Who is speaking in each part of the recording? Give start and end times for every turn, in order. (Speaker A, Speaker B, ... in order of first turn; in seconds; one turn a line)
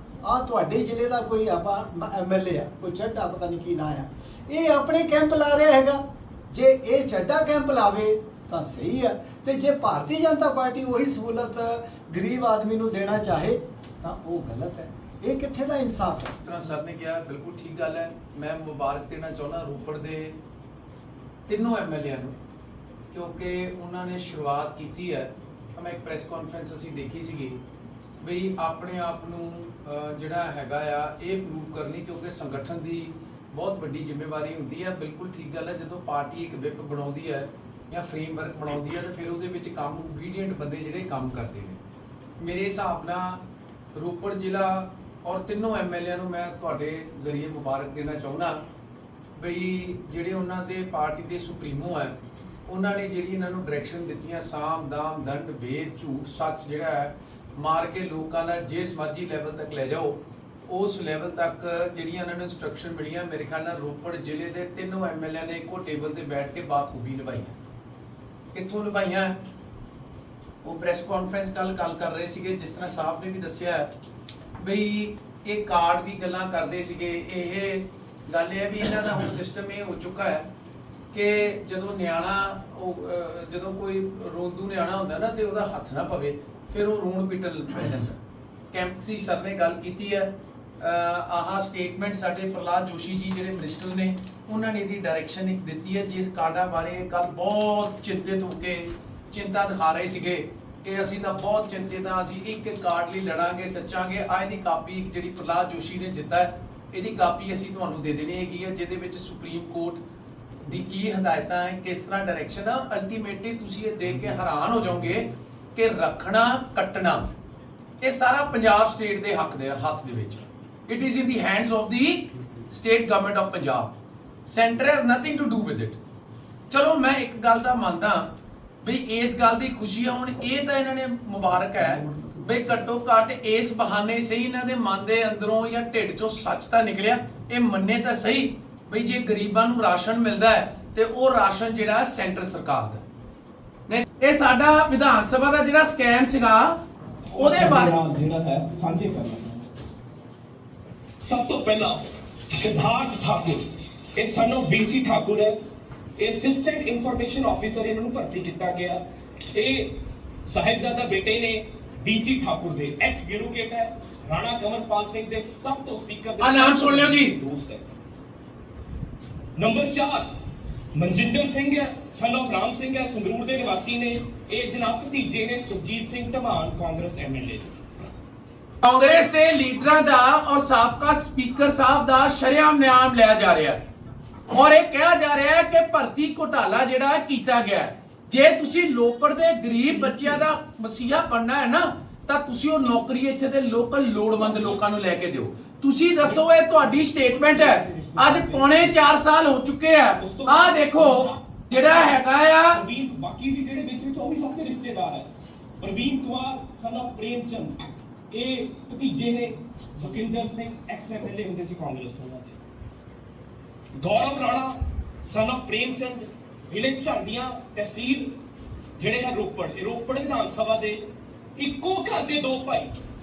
Speaker A: 0.2-16.3
Speaker B: 16.4-20.4
Speaker B: 21.5-22.3
Speaker B: 23.1-27.6
Speaker B: 28.2-41.8
Speaker B: 42.4-43.4
Speaker B: 43.9-48.6
Speaker B: 49.4-52.1
Speaker B: 52.7-67.5
Speaker B: 68.5-69.4
Speaker B: 70.6-73.9
Speaker B: 74.6-80.4
Speaker B: 81.1-88.2
Speaker B: 88.7-110.0
Speaker B: 110.6-117.3
Speaker B: 118.0-123.9
Speaker B: 124.5-126.0
Speaker B: 126.7-128.3
Speaker B: 128.8-143.0
Speaker A: 132.1-132.4
Speaker B: 143.9-146.8
Speaker C: 147.3-149.7
Speaker B: 147.3-147.9
Speaker C: 151.2-155.6
Speaker C: 156.2-167.9
Speaker B: 166.4-167.3
Speaker C: 169.6-170.3
Speaker C: 170.9-177.8
Speaker B: 178.8-183.8
Speaker B: 184.5-202.8
Speaker C: 197.3-198.9
Speaker C: 200.2-212.6
Speaker C: 213.9-218.4
Speaker C: 219.0-221.0
Speaker C: 221.5-222.9